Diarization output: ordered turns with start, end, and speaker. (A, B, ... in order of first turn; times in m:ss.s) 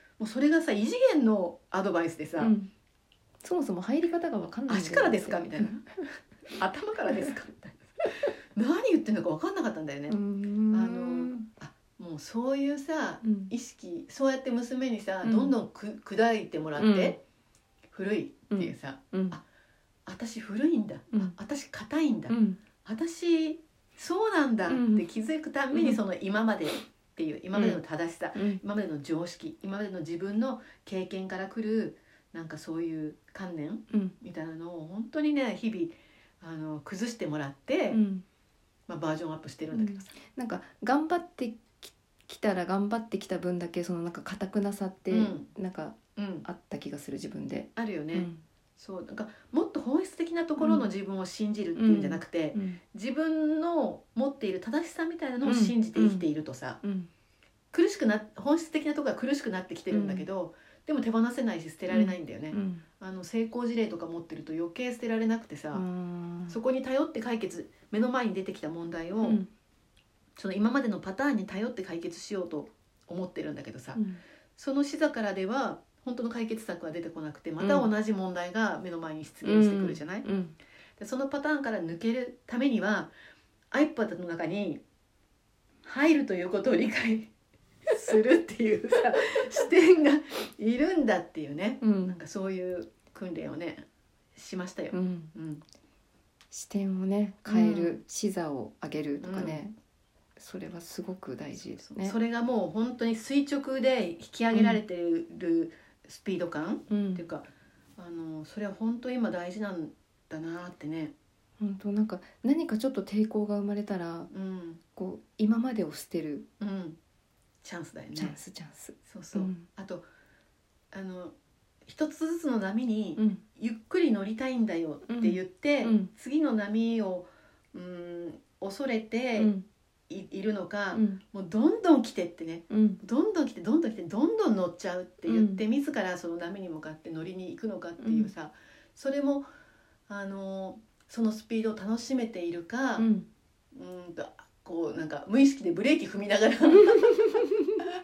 0:00.2-0:02.5 A
0:02.4-0:02.7 B
0:03.4-0:05.8 B
0:04.7-0:05.8 A
0:06.5-0:07.9 A
0:08.6-0:10.2 A
0:10.1-0:11.5 B
0:10.7-0:17.2 A
0:13.2-0:13.5 B
0:15.2-0:15.5 B
0:16.8-0:17.2 B
0:17.9-0:19.4 A
0:18.5-0:19.4 B
0:20.0-0:38.0 A
0:22.3-0:22.6 B
0:24.7-0:25.0 B
0:25.7-0:26.0 B
0:27.5-0:27.8 B
0:28.3-0:28.6 B
0:33.9-0:34.2 B
0:37.9-0:38.2 B
0:38.9-0:40.1 A
0:39.7-0:48.4 B
0:45.1-0:45.5 A
0:46.2-0:46.4 A
0:47.8-0:56.8 A
0:50.6-0:50.9 B
0:51.8-0:52.8 B
0:55.4-0:56.3 B
0:56.8-0:57.1 B
0:57.7-1:05.8 A
0:59.9-1:00.3 B
1:01.9-1:02.8 B
1:05.7-1:06.6 B
1:06.5-1:09.4 A
1:09.2-1:09.5 B
1:10.4-1:14.0 A
1:13.9-1:14.2 B
1:14.6-1:20.3 A
1:17.6-1:17.9 B
1:19.4-1:20.6 B
1:21.0-1:23.1 A
1:23.7-1:24.8 A
1:25.8-1:27.3 A
1:27.9-1:35.6 A
1:31.8-1:32.2 B
1:34.9-1:35.3 B
1:36.5-1:39.7 B
1:37.4-1:38.0 A
1:39.2-1:39.6 A
1:40.4-1:42.1 B
1:41.8-1:51.1 A
1:44.5-1:44.8 B
1:46.9-1:47.2 B
1:51.6-1:54.3 B
1:54.3-1:54.8 A
1:55.0-1:56.5 B
1:56.6-1:57.0 A
1:57.6-1:58.4 A
1:58.1-1:59.7 B
1:59.0-2:00.1 A
2:00.9-2:01.3 A
2:01.8-2:09.5 A
2:03.2-2:03.4 B
2:05.0-2:06.1 B
2:09.4-2:09.6 B
2:10.1-2:19.5 A
2:10.9-2:11.2 B
2:12.7-2:13.0 B
2:15.3-2:15.6 B
2:18.0-2:18.3 B
2:20.1-2:23.1 A
2:23.0-2:23.3 B
2:23.7-2:27.3 A
2:27.3-2:27.6 B